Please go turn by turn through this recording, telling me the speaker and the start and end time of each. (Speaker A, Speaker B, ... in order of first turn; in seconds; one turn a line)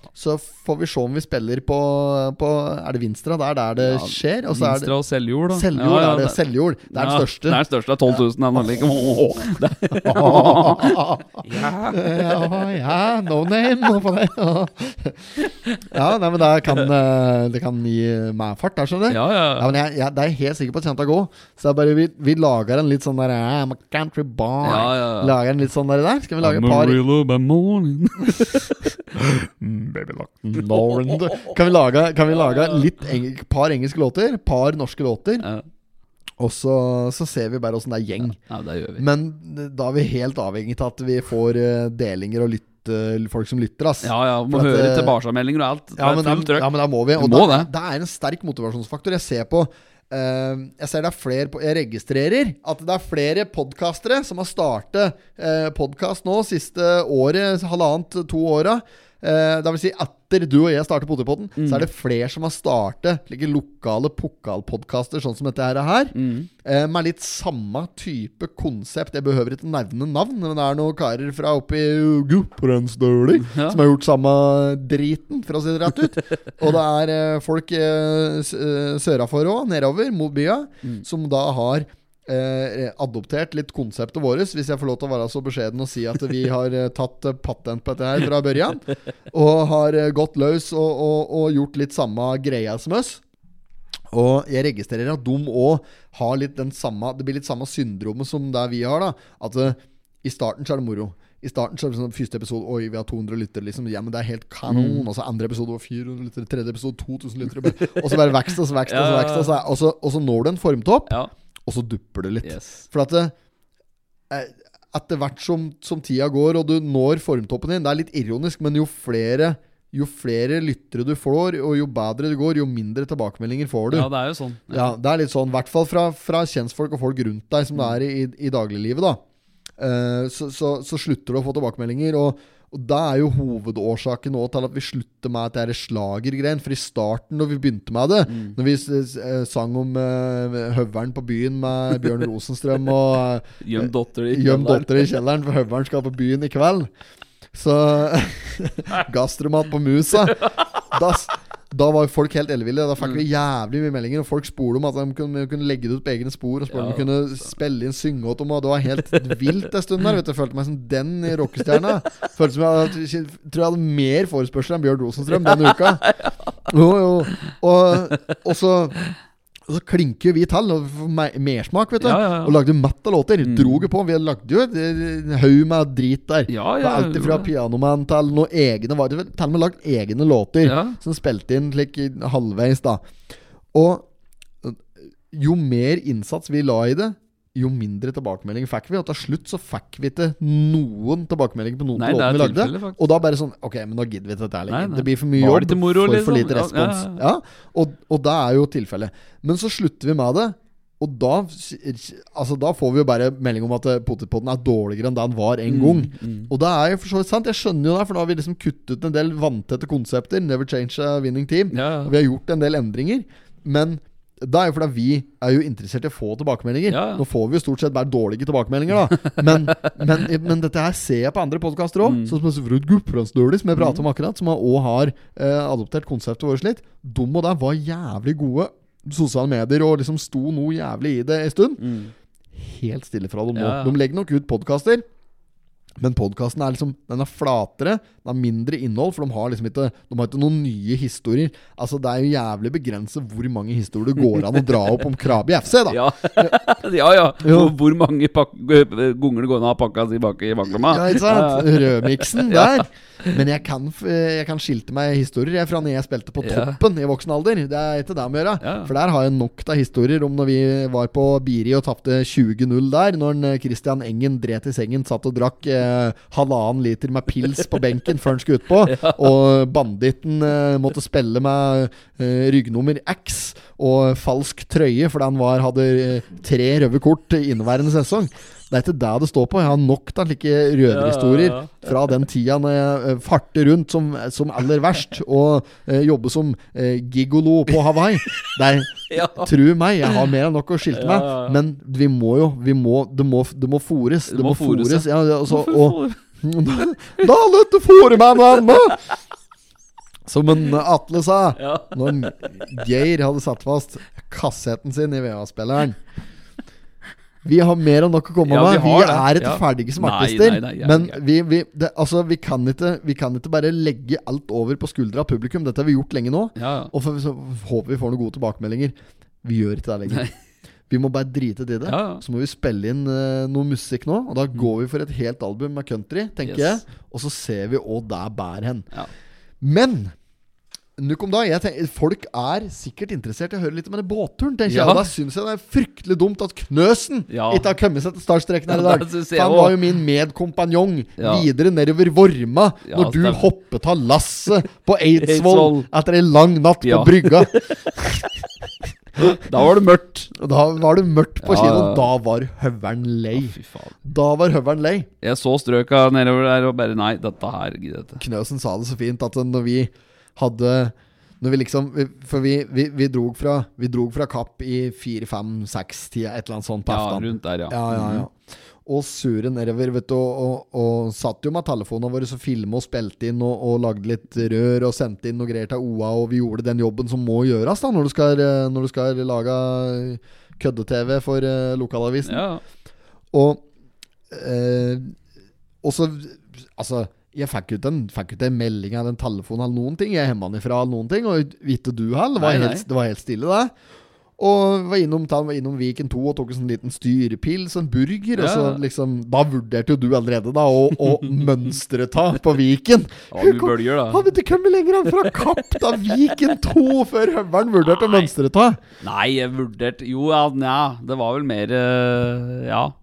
Speaker A: 0.1-5.0
Speaker B: 3.8-6.4
Speaker A: 5.5-8.2
Speaker B: 6.9-12.7
Speaker A: 9.9-27.0
Speaker B: 15.4-15.8
Speaker B: 19.1-19.7
Speaker B: 24.6-25.4
Speaker B: 26.4-28.8
Speaker A: 28.2-35.5
Speaker B: 32.5-32.7
Speaker B: 35.4-35.7
Speaker A: 36.4-38.4
Speaker B: 38.5-39.1
Speaker A: 39.0-45.2
Speaker B: 44.0-47.7
Speaker A: 46.0-93.2
Speaker B: 61.6-61.9
Speaker B: 66.1-66.5
Speaker B: 73.4-73.8
Speaker A: 94.1-111.1
Speaker B: 104.7-105.1
Speaker B: 108.9-109.5
Speaker A: 111.7-113.3
Speaker B: 112.4-112.9
Speaker A: 114.3-124.1
Speaker B: 123.9-124.9
Speaker A: 124.7-129.2
Speaker A: 129.8-146.9
Speaker B: 138.3-138.6
Speaker B: 143.6-145.2
Speaker A: 147.5-166.1
Speaker B: 150.4-150.7
Speaker B: 156.7-157.1
Speaker B: 165.4-166.5
Speaker A: 166.7-169.0
Speaker A: 169.7-183.1
Speaker B: 172.0-172.6
Speaker B: 173.4-173.9
Speaker B: 176.5-177.5
Speaker B: 180.6-181.0
Speaker A: 183.7-184.1
Speaker A: 184.6-231.8
Speaker B: 191.9-193.2
Speaker B: 194.7-197.2
Speaker B: 205.7-206.5
Speaker B: 211.7-212.1
Speaker B: 216.9-217.2
Speaker B: 219.2-219.9
Speaker B: 222.0-222.4
Speaker B: 223.8-224.0
Speaker B: 231.8-232.1
Speaker A: 232.5-235.1
Speaker B: 233.6-234.0
Speaker A: 236.0-246.6
Speaker B: 244.2-245.0
Speaker B: 245.9-253.4
Speaker A: 247.4-247.7
Speaker A: 250.7-299.1
Speaker B: 256.4-256.8
Speaker B: 258.6-258.9
Speaker B: 268.9-269.3
Speaker B: 280.9-281.9
Speaker B: 288.3-288.5
Speaker B: 289.1-289.5
Speaker B: 290.9-291.6
Speaker B: 294.3-297.3
Speaker A: 300.3-306.0
Speaker B: 301.6-302.6
Speaker A: 307.4-320.3
Speaker B: 308.5-311.2
Speaker B: 316.6-316.9
Speaker A: 320.9-328.9
Speaker B: 321.9-322.2
Speaker B: 326.5-326.8
Speaker A: 329.6-330.1
Speaker A: 331.0-348.2
Speaker B: 334.7-335.1
Speaker B: 337.3-337.7
Speaker B: 338.7-339.8
Speaker B: 341.2-341.5
Speaker B: 342.8-343.5
Speaker B: 345.1-345.9
Speaker B: 346.8-348.3
Speaker B: 349.2-350.3
Speaker A: 350.4-355.1
Speaker B: 351.4-352.1
Speaker B: 353.4-353.9
Speaker B: 355.2-358.2
Speaker A: 358.2-382.4
Speaker B: 366.9-368.3
Speaker B: 382.2-382.6
Speaker A: 383.3-383.6
Speaker A: 384.3-385.1
Speaker A: 385.8-393.7
Speaker B: 392.4-392.9
Speaker A: 394.4-408.8
Speaker B: 398.4-398.8
Speaker B: 403.3-404.3
Speaker B: 409.0-412.9